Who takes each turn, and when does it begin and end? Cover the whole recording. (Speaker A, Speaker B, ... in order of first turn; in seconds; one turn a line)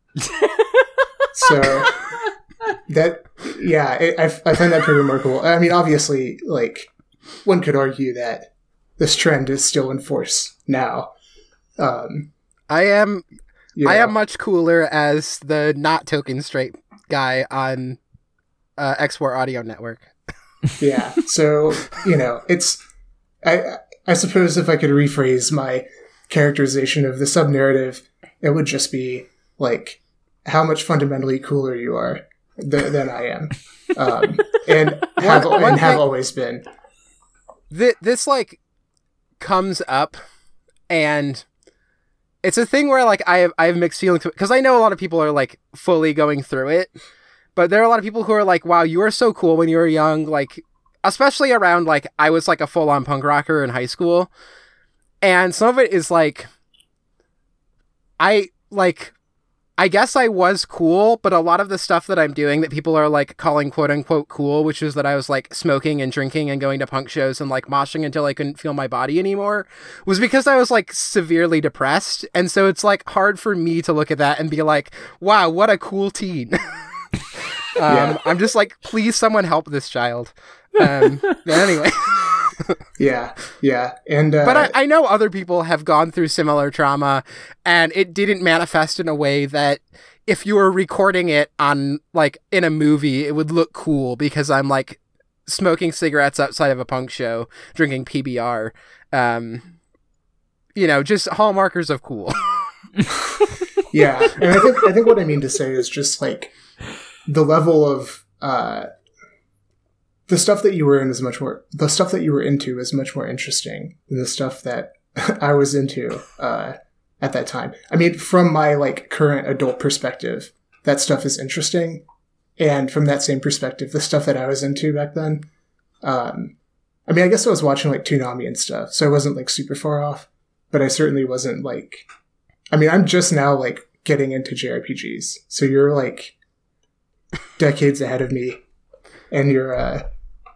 Speaker A: 1.3-2.0
Speaker A: 2.9-6.9
Speaker A: 7.4-11.1
Speaker A: 11.8-12.3
Speaker B: 12.7-13.2
Speaker A: 13.8-14.1
Speaker B: 13.8-18.0
Speaker B: 18.8-20.1
Speaker A: 20.8-22.8
Speaker A: 23.4-36.6
Speaker B: 35.2-36.0
Speaker B: 37.7-38.6
Speaker B: 39.4-40.2
Speaker B: 40.9-41.4
Speaker B: 42.4-46.9
Speaker B: 47.5-54.3
Speaker B: 55.2-56.5
Speaker B: 58.2-59.1
Speaker B: 59.8-76.8
Speaker B: 77.8-82.8
Speaker A: 77.8-78.2
Speaker A: 83.0-84.7
Speaker B: 84.4-99.7
Speaker B: 100.7-102.6
Speaker A: 103.9-106.5
Speaker A: 107.2-108.9
Speaker A: 110.3-122.0
Speaker A: 122.6-125.5
Speaker A: 126.0-126.5
Speaker A: 127.1-132.1
Speaker A: 132.7-136.3
Speaker A: 137.6-138.6
Speaker A: 139.3-140.0